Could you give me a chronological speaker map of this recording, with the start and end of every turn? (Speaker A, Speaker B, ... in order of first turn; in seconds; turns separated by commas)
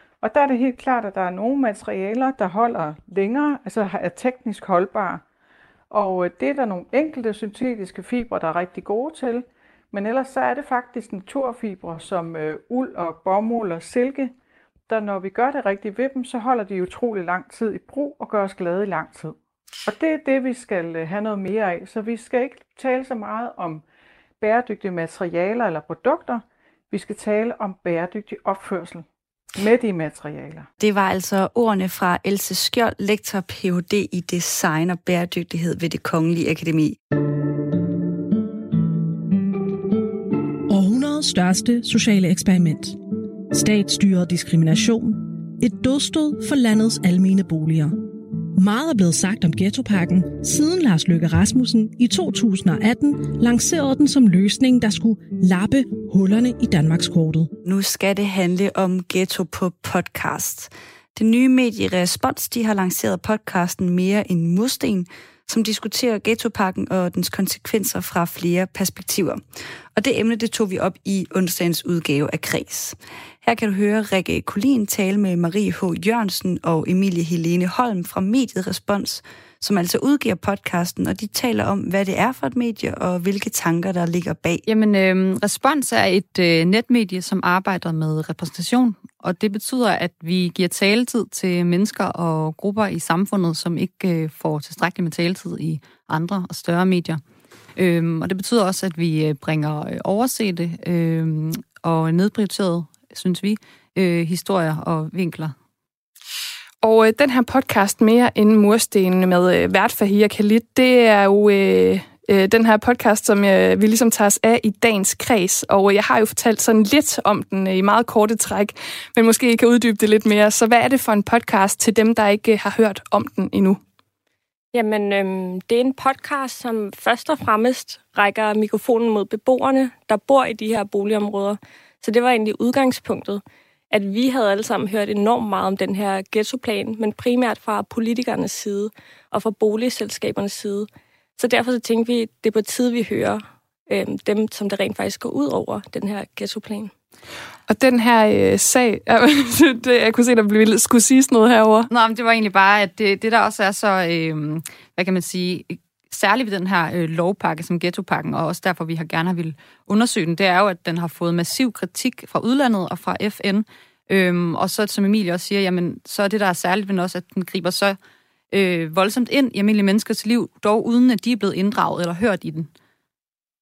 Speaker A: 0.2-5.2, Speaker A: 5.9-14.3, Speaker A: 14.9-23.8, Speaker A: 24.4-30.7, Speaker B: 30.8-37.0, Speaker C: 40.7-43.0, Speaker C: 43.5-48.0, Speaker C: 48.5-57.5, Speaker B: 57.6-69.4, Speaker B: 70.0-84.7, Speaker D: 84.7-97.2, Speaker D: 97.8-105.5, Speaker E: 106.8-123.8, Speaker F: 124.7-146.9, Speaker E: 147.7-151.9, Speaker D: 151.9-168.0, Speaker D: 168.5-172.7